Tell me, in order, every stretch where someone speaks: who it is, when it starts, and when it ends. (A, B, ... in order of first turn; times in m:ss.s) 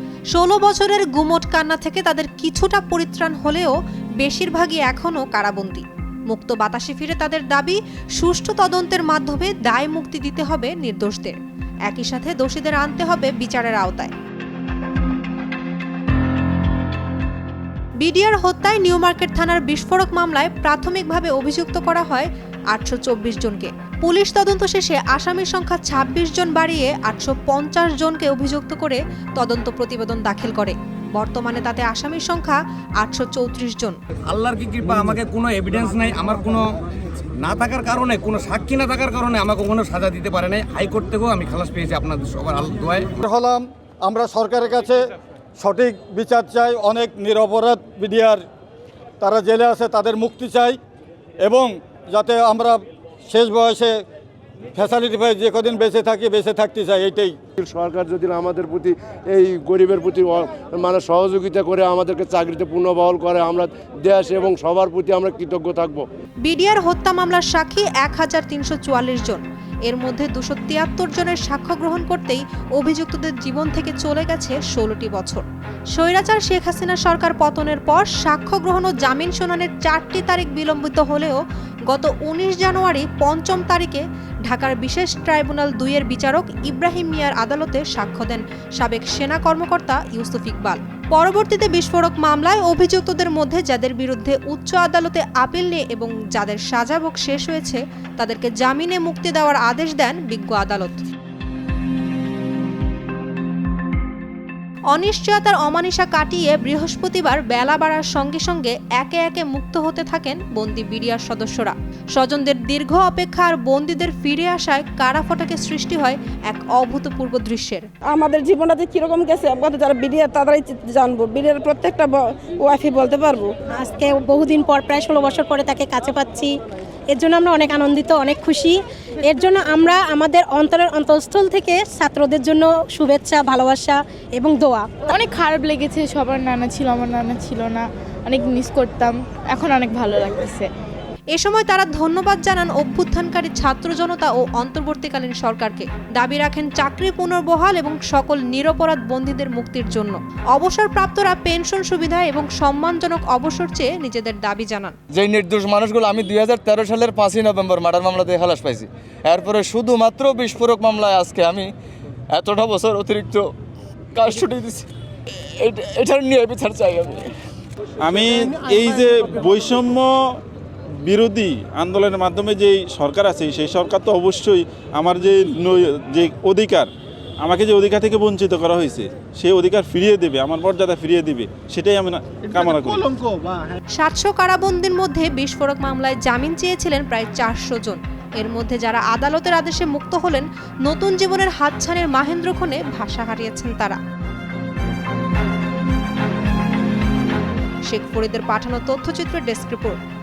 0:00.3-0:11.4 A
0:11.9-0:14.1 A
0:18.0-0:34.0 A
0:34.3-0:36.7 B
0:37.4-0:43.2 B
0:43.3-0:45.0 C
0:45.6-0:48.4 C
0:49.2-0:50.8 C
0:51.4-0:54.0 C
0:54.8-0:57.4 C
0:57.6-1:06.0 D
1:06.4-1:41.0 A
1:44.9-1:57.9 A
1:58.0-2:03.5 E
2:03.8-2:06.5 F
2:07.1-2:15.0 F
2:15.1-2:20.7 G
2:21.4-2:35.0 A
2:35.1-2:41.7 H
2:42.3-2:43.5 H
2:44.1-2:47.3 H
2:48.0-2:50.1 I
2:51.0-2:56.9 I
2:57.4-3:03.1 I
3:04.0-3:14.0 A
3:17.9-3:20.0 A